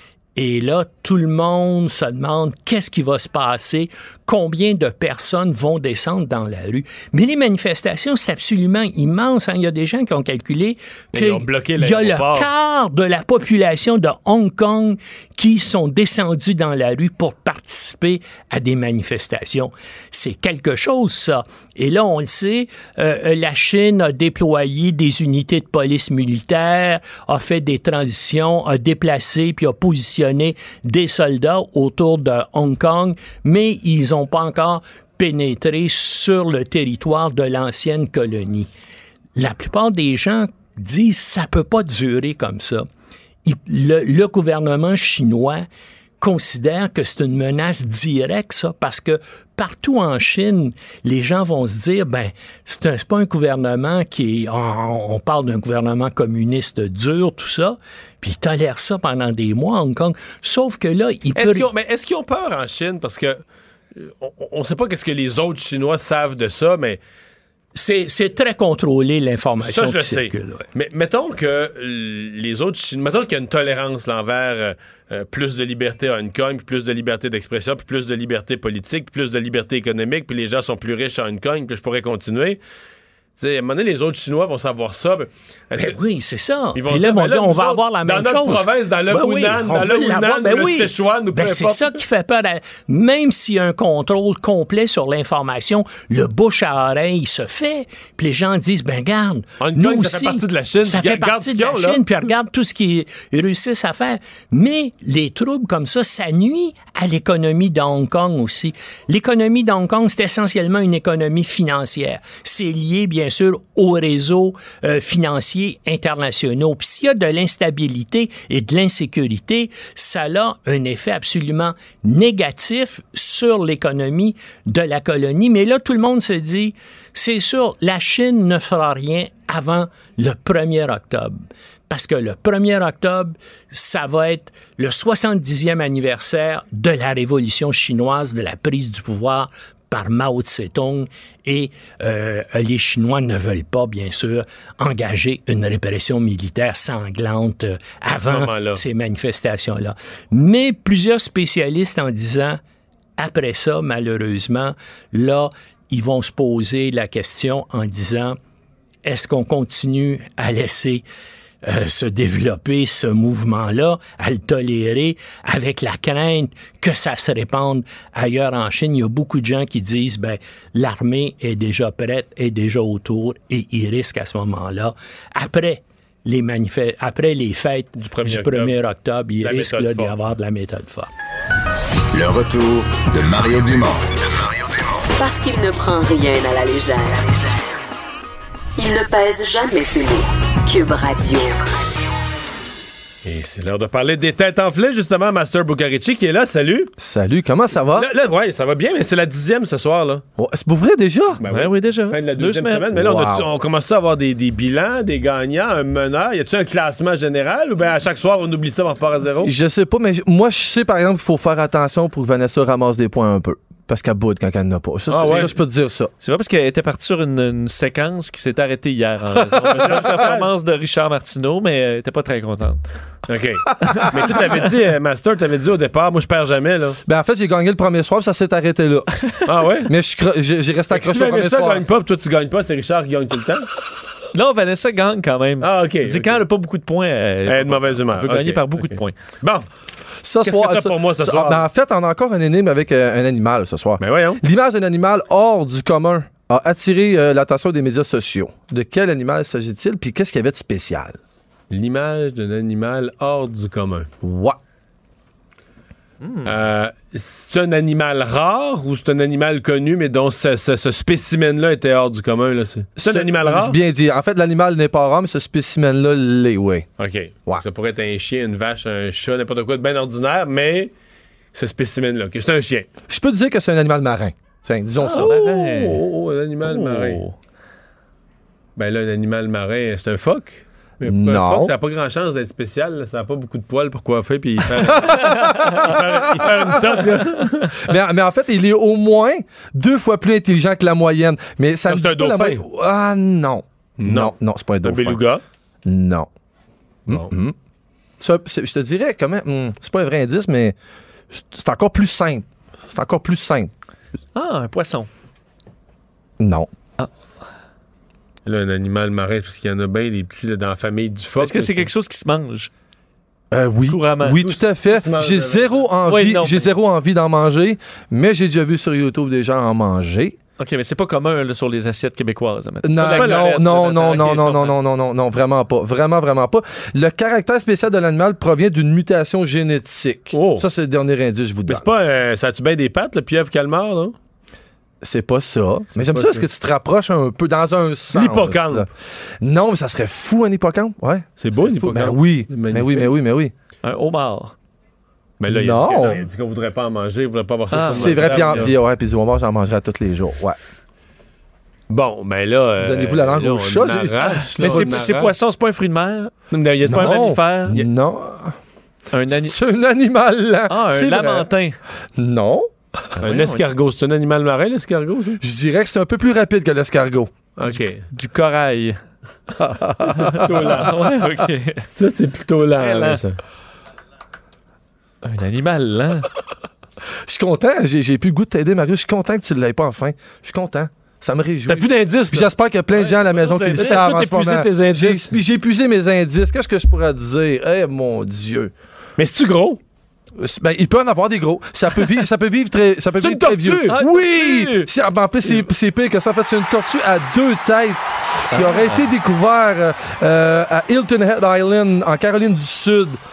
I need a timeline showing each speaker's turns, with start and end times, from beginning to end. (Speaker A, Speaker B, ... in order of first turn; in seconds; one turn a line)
Speaker A: 0.3-38.7
Speaker B: 11.1-12.5
Speaker A: 39.4-42.9
Speaker A: 43.4-45.6
Speaker A: 46.2-61.7
Speaker B: 61.3-63.4
Speaker B: 63.9-67.0
Speaker A: 67.7-70.6
Speaker B: 69.6-82.6
Speaker B: 83.4-86.0
Speaker A: 85.7-152.6
Speaker B: 86.7-92.0
Speaker B: 99.6-102.0
Speaker B: 148.2-148.8
Speaker A: 153.2-158.4
Speaker A: 159.0-161.0
Speaker A: 161.6-181.1
Speaker B: 178.0-178.8
Speaker B: 179.4-180.1
Speaker C: 182.1-184.8
Speaker D: 185.2-187.4
Speaker D: 188.8-191.6
Speaker B: 193.2-196.9
Speaker E: 197.0-198.1
Speaker B: 197.9-200.2
Speaker E: 200.4-201.4
Speaker B: 201.4-209.5
Speaker F: 201.5-202.9
Speaker E: 202.9-203.4
Speaker E: 209.4-216.1
Speaker B: 215.1-215.5
Speaker F: 216.2-222.8
Speaker B: 219.5-220.5
Speaker B: 223.3-227.0
Speaker E: 227.1-229.2
Speaker B: 229.4-229.9
Speaker E: 229.8-231.8
Speaker B: 230.9-233.7
Speaker F: 234.3-239.1
Speaker B: 235.6-236.4
Speaker B: 237.5-239.6
Speaker E: 240.2-251.2
Speaker B: 240.4-241.6
Speaker B: 244.0-244.4
Speaker B: 251.7-254.1
Speaker E: 254.2-254.6
Speaker B: 256.4-263.7
Speaker E: 263.0-266.9
Speaker B: 267.0-270.9
Speaker B: 271.5-272.9
Speaker E: 273.1-275.6
Speaker F: 275.0-276.0
Speaker B: 275.1-277.2
Speaker F: 276.6-277.4
Speaker B: 278.8-287.7
Speaker E: 281.1-281.7
Speaker E: 284.8-287.0
Speaker F: 285.2-285.9
Speaker E: 287.8-295.2
Speaker B: 291.9-292.6
Speaker B: 294.0-295.4
Speaker E: 295.9-296.3
Speaker E: 297.1-297.5
Speaker B: 297.1-297.3
Speaker E: 298.2-300.7
Speaker E: 301.3-303.7
Speaker F: 304.3-305.1
Speaker E: 306.4-306.7
Speaker B: 308.4-311.9
Speaker F: 311.4-312.7
Speaker E: 313.5-320.4
Speaker F: 313.9-314.4
Speaker B: 314.4-315.9
Speaker F: 316.1-316.7
Speaker F: 320.6-324.7
Speaker E: 322.8-331.8
Speaker B: 323.0-324.3
Speaker B: 330.3-330.6
Speaker B: 331.7-334.1
Speaker E: 335.0-338.9
Speaker B: 335.9-336.4
Speaker B: 338.1-338.9
Speaker E: 339.4-343.5
Speaker B: 341.4-343.1
Speaker F: 343.8-344.5
Speaker B: 345.4-348.7
Speaker E: 345.5-346.2
Speaker F: 347.7-348.7
Speaker E: 347.9-350.6
Speaker B: 351.9-355.3
Speaker E: 352.8-355.1
Speaker F: 354.6-357.8
Speaker B: 356.5-357.8
Speaker E: 356.9-358.6
Speaker F: 359.1-359.6
Speaker E: 359.3-361.5
Speaker F: 360.7-361.8
Speaker E: 362.2-362.7
Speaker F: 363.2-363.6
Speaker B: 363.2-365.4
Speaker E: 365.4-367.3
Speaker B: 367.6-368.0
Speaker F: 368.1-369.0
Speaker E: 369.6-370.8
Speaker F: 370.1-371.9
Speaker B: 370.4-371.0
Speaker B: 371.9-373.4
Speaker F: 372.8-373.2
Speaker F: 375.2-376.3
Speaker E: 377.2-388.7
Speaker B: 381.7-382.5
Speaker F: 382.9-384.1
Speaker B: 383.7-385.4
Speaker B: 389.2-389.8
Speaker E: 390.4-403.2
Speaker B: 393.2-394.0
Speaker F: 393.9-394.9
Speaker F: 398.5-399.0